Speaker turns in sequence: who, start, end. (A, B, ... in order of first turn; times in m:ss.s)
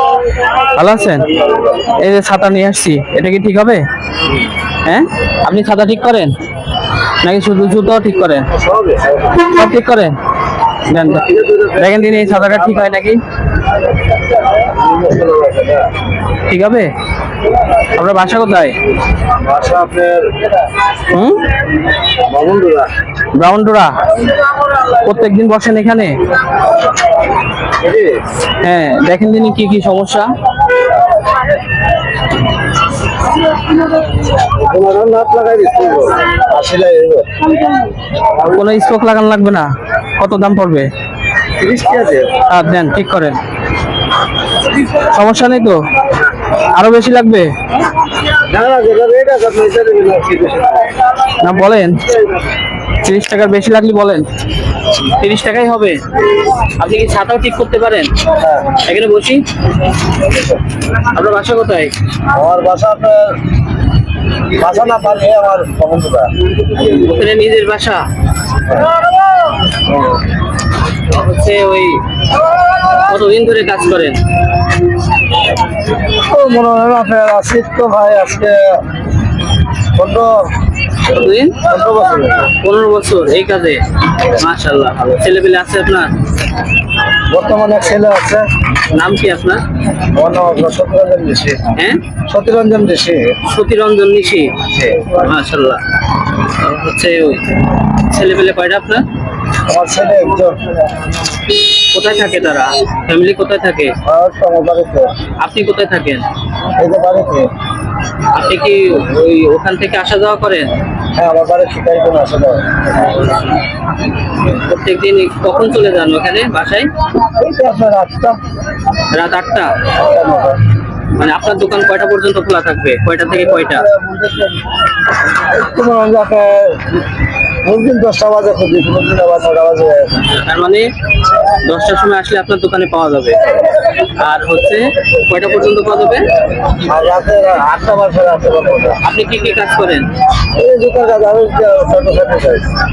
0:00.7-0:01.3 A
0:01.8-0:03.8 A
0:04.8-0:06.3 A
0:07.2-0:08.5 A
0:08.5-0:09.3 B
0:09.3-0:10.2 A
0:10.9-0:13.2 A
0:11.1-0:12.8 B
0:14.6-0:15.9 B
0:16.5-0:16.9 A
0:17.9-0:18.8 A
0:19.4-0:20.4 B
0:21.1-0:21.4 A
0:22.2-0:22.9 B
0:23.3-0:24.0 A
0:24.9-0:26.2 A
0:27.8-0:28.1 B
0:28.6-0:30.3 A
0:34.4-0:37.3 B
0:38.4-0:40.9 A
0:41.6-0:42.3 B
0:42.5-0:43.4 A
0:44.9-0:45.8 A
0:46.6-0:47.5 A
0:48.5-0:50.9 B
0:51.4-0:52.0 A
0:53.0-0:54.2 A
0:55.1-0:56.0 A
0:56.8-0:58.1 A
0:58.4-0:58.8 B
0:58.8-0:59.4 A
1:01.1-1:01.9 A
1:02.3-1:03.4 B
1:04.6-1:06.3 B
1:06.8-1:08.0 A
1:11.1-1:12.0 A
1:13.1-1:14.2 A
1:16.2-1:18.8 B
1:19.9-1:20.5 B
1:21.1-1:21.6 A
1:21.6-1:22.5 B
1:22.6-1:26.1 A
1:27.3-1:28.5 B
1:28.9-1:29.6 A
1:30.1-1:31.7 B
1:31.7-1:32.0 A
1:32.3-1:33.4 B
1:33.5-1:34.6 A
1:34.8-1:35.1 B
1:35.1-1:35.8 A
1:36.5-1:37.4 A
1:38.0-1:39.0 A
1:39.7-1:40.6 B
1:41.9-1:43.9 A
1:44.1-1:45.1 B
1:45.4-1:46.2 A
1:46.8-1:47.5 B
1:48.3-1:50.7 A
1:51.2-1:53.1 B
1:54.5-1:56.9 A
1:57.3-1:58.4 B
1:59.1-1:59.8 A
1:59.9-2:00.6 B
2:01.2-2:03.9 A
2:03.4-2:04.6 B
2:05.3-2:07.0 B
2:07.6-2:10.3 B
2:10.2-2:10.9 A
2:11.5-2:13.4 A
2:14.1-2:16.3 A
2:16.9-2:19.0 B
2:19.0-2:20.1 A
2:20.5-2:22.6 B